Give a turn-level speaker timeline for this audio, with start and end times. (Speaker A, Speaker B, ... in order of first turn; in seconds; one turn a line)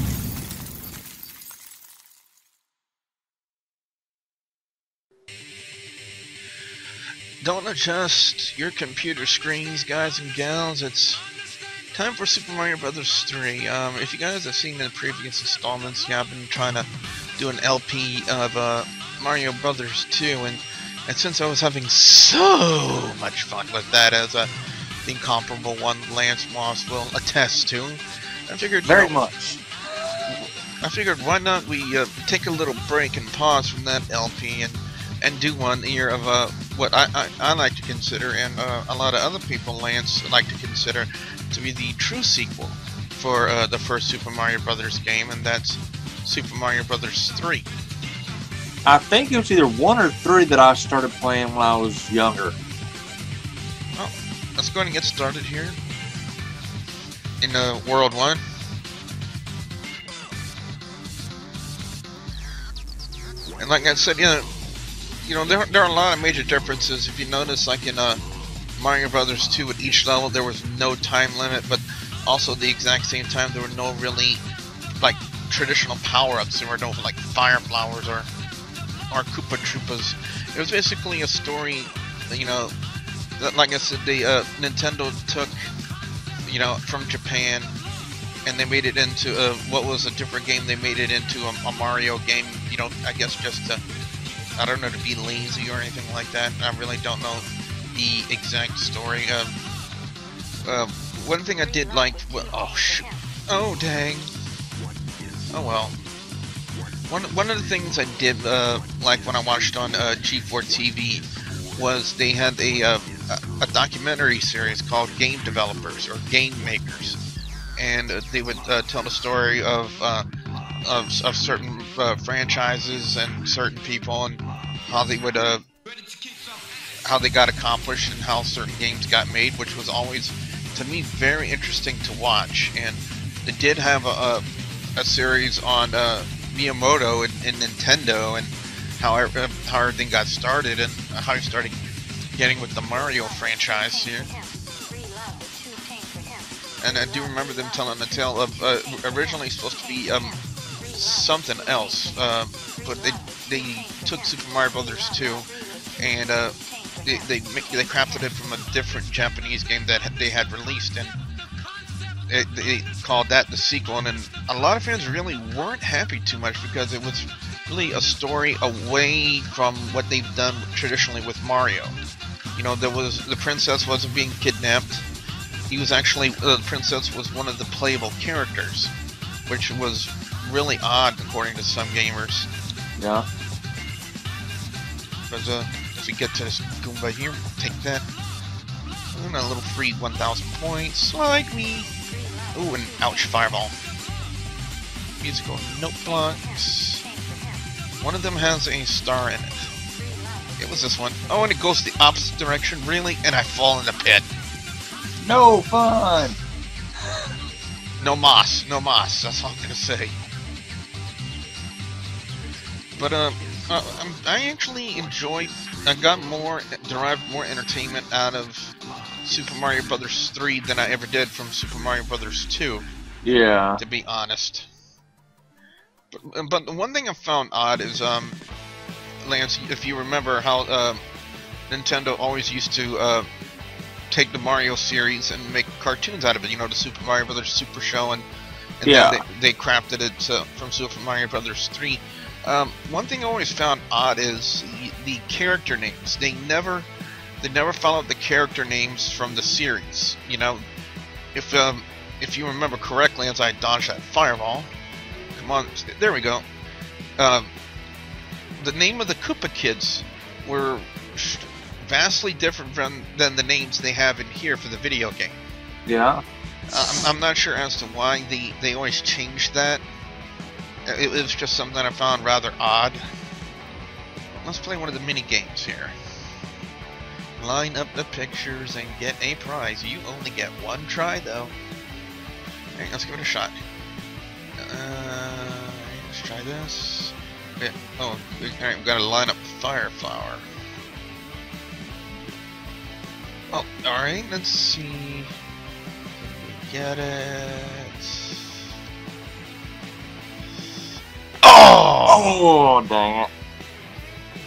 Speaker A: 7.4-11.2
Speaker A: 11.9-24.5
Speaker A: 25.0-29.1
Speaker B: 28.8-29.6
Speaker A: 30.3-47.7
Speaker B: 48.9-52.6
Speaker A: 54.0-55.8
Speaker A: 57.4-58.4
Speaker A: 63.6-64.5
Speaker A: 65.2-68.2
Speaker A: 68.8-74.4
Speaker A: 75.0-78.3
Speaker A: 79.1-82.7
Speaker A: 83.4-85.5
Speaker A: 86.4-87.8
Speaker A: 88.4-93.8
Speaker A: 94.6-99.6
Speaker A: 100.6-104.3
Speaker A: 105.5-106.0
Speaker A: 107.1-117.2
Speaker A: 117.8-120.2
Speaker A: 120.8-125.6
Speaker A: 127.0-134.4
Speaker A: 135.0-141.8
Speaker A: 142.3-144.3
Speaker A: 146.8-150.4
Speaker A: 150.9-155.5
Speaker A: 156.0-156.5
Speaker A: 157.0-161.2
Speaker A: 162.3-172.0
Speaker A: 172.5-175.1
Speaker A: 175.7-178.9
Speaker A: 179.5-182.5
Speaker B: 183.0-183.2
Speaker A: 185.3-188.1
Speaker A: 189.1-191.9
Speaker A: 192.5-193.7
Speaker A: 195.2-197.0
Speaker A: 198.0-199.6
Speaker A: 200.6-204.2
Speaker B: 205.2-206.4
Speaker A: 208.0-210.2
Speaker A: 212.9-218.7
Speaker A: 219.2-222.8
Speaker B: 223.2-223.8
Speaker A: 223.8-224.7
Speaker A: 226.1-228.4
Speaker A: 229.2-231.0
Speaker A: 231.7-233.2
Speaker A: 234.1-238.3
Speaker A: 238.8-246.9
Speaker B: 238.8-239.2
Speaker A: 247.4-250.6
Speaker A: 251.3-254.7
Speaker A: 255.3-256.4
Speaker A: 257.2-257.5
Speaker A: 258.6-265.4
Speaker B: 265.9-266.2
Speaker A: 266.7-269.8
Speaker A: 270.9-273.0
Speaker A: 274.4-275.9
Speaker A: 277.4-281.5
Speaker A: 282.8-283.6
Speaker A: 284.6-290.4
Speaker A: 293.5-295.3
Speaker A: 296.2-298.5
Speaker A: 301.4-302.4
Speaker B: 302.1-303.3